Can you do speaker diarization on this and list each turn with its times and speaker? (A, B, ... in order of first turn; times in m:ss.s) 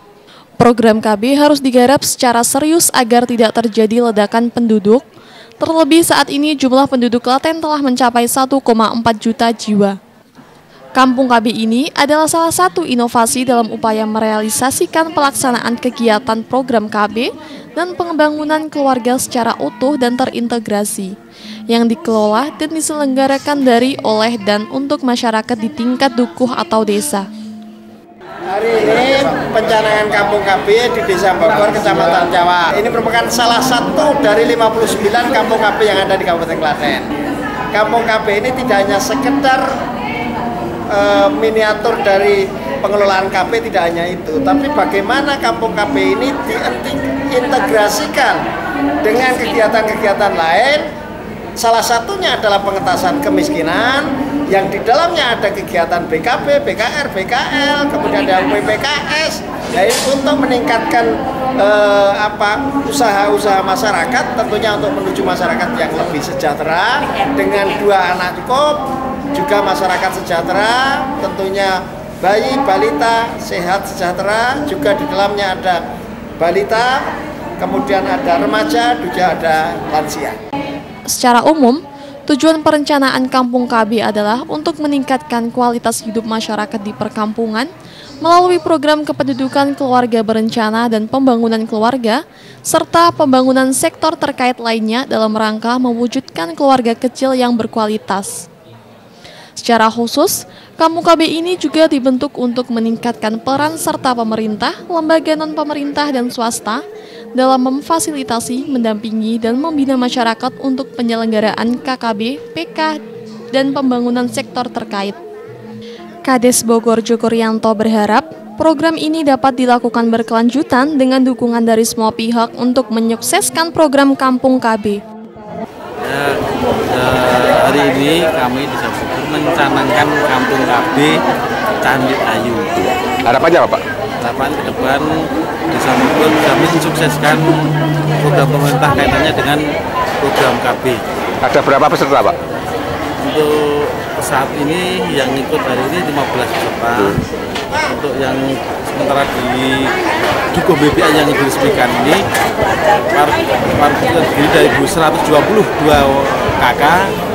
0:00.6-0:05.0 A
0:05.6-0:10.0 A
0:11.0-0:21.1 A
0:21.7-0:27.3 A
0:28.5-0:37.1 B
0:37.7-0:39.8 B
0:40.9-0:48.4 B
0:49.0-0:50.9 B
0:51.6-1:15.8 B
1:16.4-1:20.4 B
1:21.1-1:27.7 A
1:28.2-1:38.5 A
1:39.6-1:46.8 A
1:47.3-1:53.0 A
1:53.5-1:55.2 A
1:56.2-2:05.0 A
2:06.0-2:11.2 C
2:11.8-2:12.8 C
2:12.8-2:13.8 D
2:14.2-2:17.6 C
2:18.2-2:19.6 C
2:20.2-2:21.0 C
2:21.4-2:22.4 D
2:23.2-2:27.2 C
2:27.8-2:29.9 C
2:30.5-2:32.2 C
2:33.1-2:37.1 C